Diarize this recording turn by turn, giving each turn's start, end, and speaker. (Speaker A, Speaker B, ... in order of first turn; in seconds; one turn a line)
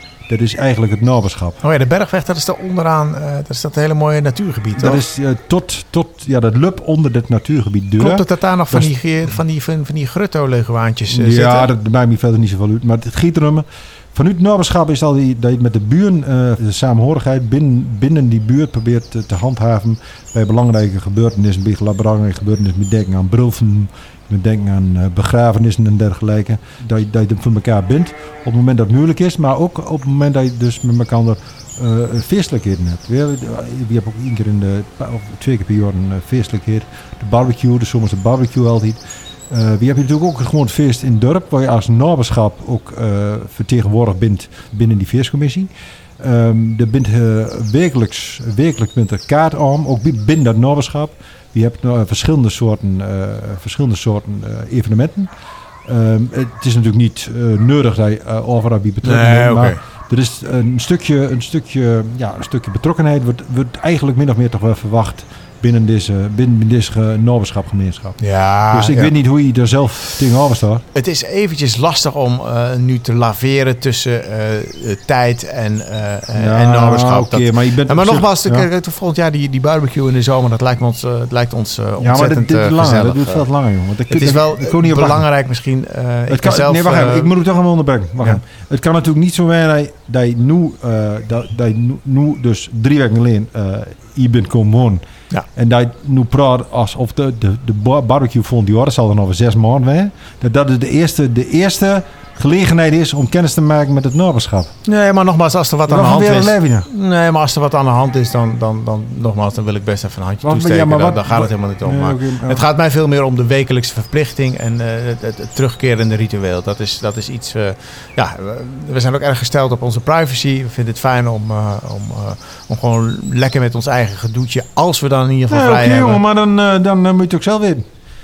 Speaker A: 0.3-1.6
Speaker B: 1.6-5.0
Speaker A: 4.8-8.9
Speaker B: 8.0-11.7
Speaker A: 11.1-55.3
Speaker A: 55.8-70.8
Speaker B: 59.0-59.8
Speaker B: 68.2-69.1
Speaker B: 70.9-83.5
Speaker A: 76.3-78.7
Speaker A: 82.0-85.3
Speaker B: 84.1-87.3
Speaker A: 86.3-95.0
Speaker A: 95.5-104.7
Speaker B: 104.8-126.2
Speaker A: 105.9-106.9
Speaker A: 110.4-112.6
Speaker A: 125.5-127.8